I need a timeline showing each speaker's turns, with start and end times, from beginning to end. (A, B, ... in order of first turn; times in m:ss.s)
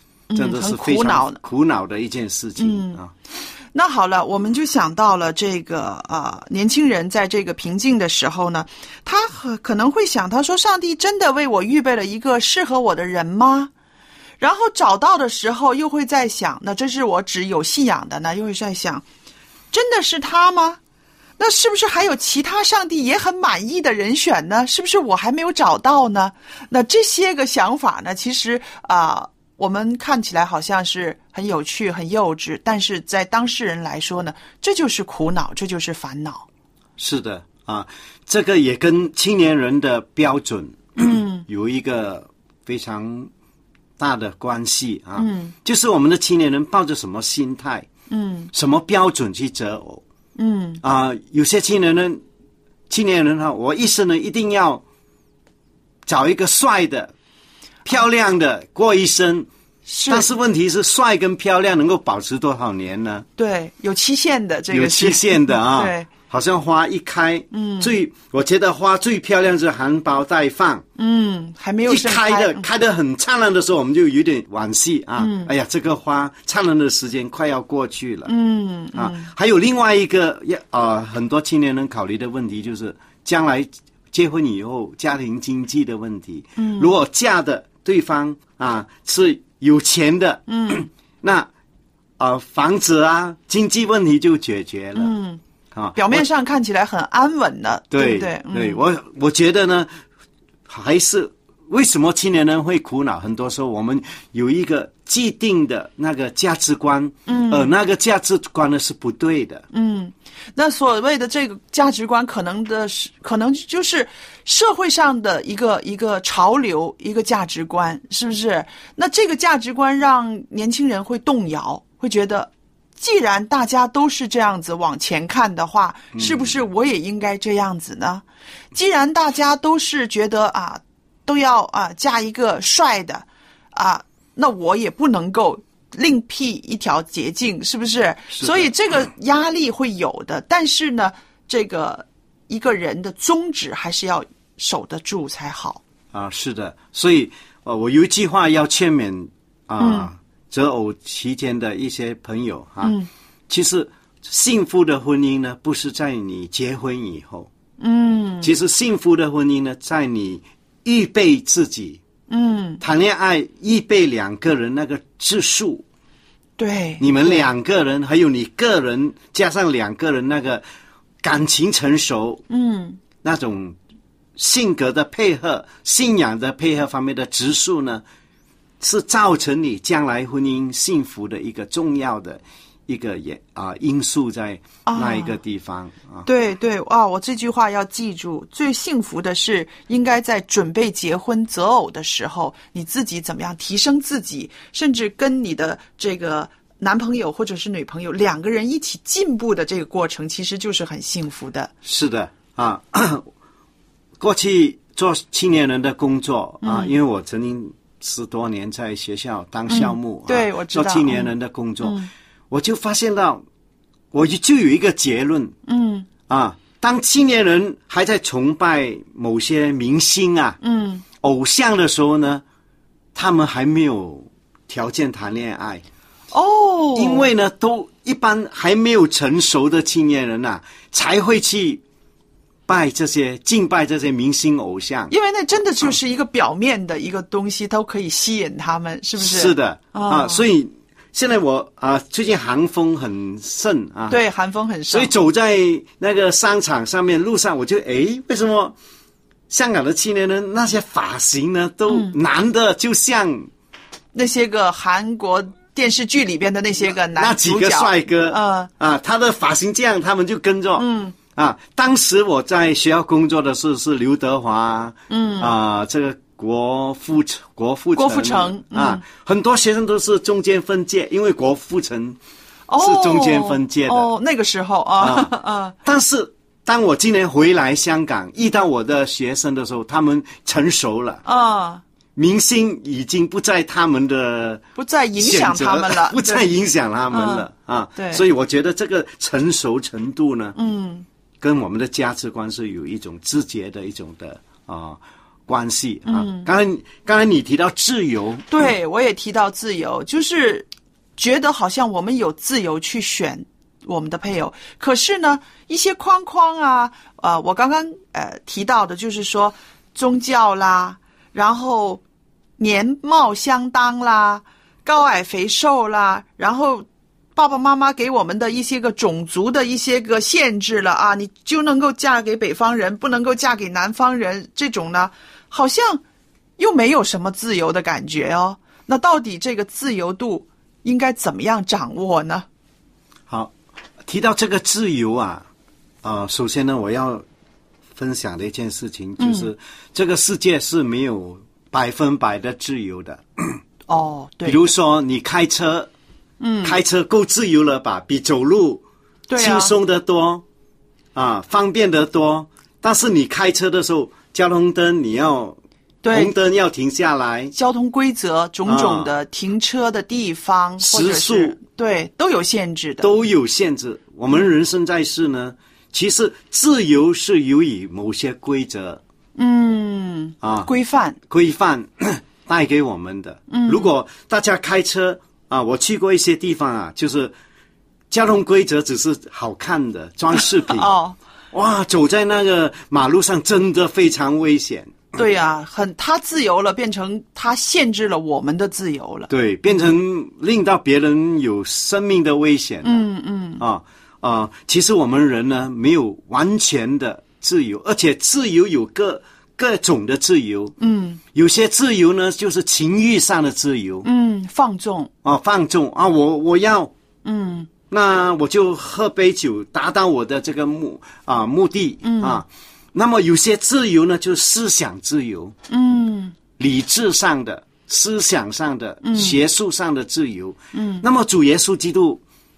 0:00.3-0:01.4 A
0:00.4-0:03.1 B
0:02.6-0:03.0 A
0:03.7-0:13.7 A
0:14.4-0:19.0 A
0:19.7-0:20.8 A
0:21.4-0:36.5 A
0:37.0-0:43.3 B
0:41.0-0:41.4 A
0:44.0-0:47.9 B
0:45.2-0:45.5 A
0:48.1-0:48.5 A
0:48.5-0:50.0 B
0:50.4-0:50.8 A
0:50.8-0:52.2 B
0:52.9-0:54.8 B
0:56.1-0:57.1 B
0:57.8-0:59.5 B
0:59.9-1:00.3 A
1:00.1-1:03.3 B
1:03.4-1:06.1 A
1:04.7-1:10.8 B
1:07.5-1:08.0 A
1:11.0-1:12.7 A
1:11.9-1:18.3 B
1:15.2-1:15.5 A
1:18.3-1:19.3 A
1:18.9-1:31.5 B
1:26.6-1:27.0 A
1:30.5-1:30.9 A
1:32.2-1:35.1 B
1:35.0-1:35.4 A
1:35.7-1:36.3 B
1:36.0-1:38.8 A
1:37.9-1:39.9 B
1:40.7-1:49.6 B
1:47.3-1:47.7 A
1:49.7-2:25.8 A
2:06.1-2:06.6 B
2:18.3-2:18.7 B
2:26.1-2:33.0 B
2:29.8-2:30.1 A
2:32.8-2:33.1 A
2:33.5-2:37.5 B
2:37.8-2:38.5 A
2:38.4-2:42.0 B
2:42.3-2:42.8 A
2:42.8-2:45.8 B
2:46.6-2:47.5 A
2:47.0-2:50.6 B
2:51.2-2:52.4 B
2:52.5-2:53.0 A
2:53.2-2:53.8 B
2:54.4-2:58.0 B
2:58.8-3:06.3 B
3:04.9-3:05.4 A
3:06.2-3:21.7 A
3:21.8-3:23.3 B
3:24.2-3:33.4 B
3:26.6-3:27.0 A
3:29.7-3:32.1 A
3:34.1-3:35.6 B
3:35.7-3:36.1 A
3:36.3-3:40.6 B
3:40.6-3:41.0 A
3:41.2-3:42.4 B
3:43.2-3:45.8 B
3:46.3-3:47.3 A
3:47.0-3:51.8 B
3:52.7-3:55.1 B
3:55.1-4:00.4 A
3:59.2-4:04.2 B
4:04.1-4:05.1 A
4:04.9-4:08.8 B
4:09.5-4:13.5 B
4:11.9-4:12.2 A
4:14.1-4:18.7 A
4:17.2-4:32.2 B
4:20.8-4:21.2 A
4:25.1-4:25.6 A
4:28.0-4:29.0 A
4:32.7-4:35.8 A
4:32.8-4:34.1 B
4:35.0-4:35.3 B
4:35.8-4:41.2 B
4:41.2-4:41.8 A
4:42.2-4:44.6 B
4:44.8-4:46.5 A
4:45.2-4:50.6 B
4:47.1-4:48.2 A
4:50.6-4:51.1 A
4:51.4-4:58.7 B
4:56.1-4:56.5 A
4:58.5-5:12.0 A
5:12.6-5:26.0 A
5:26.6-5:32.5 A
5:33.3-5:35.5 B
5:36.0-5:37.2 B
5:38.0-5:43.6 B
5:39.2-5:39.5 A
5:43.9-5:44.7 A
5:44.4-5:45.9 B
5:46.4-5:46.8 A
5:46.6-5:48.8 B
5:49.3-5:49.8 A
5:49.4-5:50.4 B
5:51.2-5:55.6 B
5:56.0-5:56.3 A
5:56.1-5:57.5 B
5:57.5-6:03.1 A
5:58.7-5:59.1 B
6:00.8-6:01.6 B
6:03.0-6:09.0 B
6:09.4-6:11.2 A
6:10.4-6:10.7 B
6:11.3-6:17.4 B
6:13.5-6:13.9 A
6:18.1-6:20.9 B
6:20.5-6:21.2 A
6:21.5-6:25.0 B
6:25.1-6:29.9 A
6:29.3-6:33.1 B
6:32.8-6:33.6 A
6:33.6-6:40.8 B
6:40.8-6:41.2 A
6:41.3-6:44.1 B
6:44.0-6:45.1 A
6:45.2-6:46.9 B
6:47.2-6:47.7 A
6:47.9-6:55.6 B
6:52.0-6:52.4 A
6:55.7-6:56.4 A
6:56.6-7:02.2 B
6:59.0-6:59.4 A
7:00.7-7:01.1 A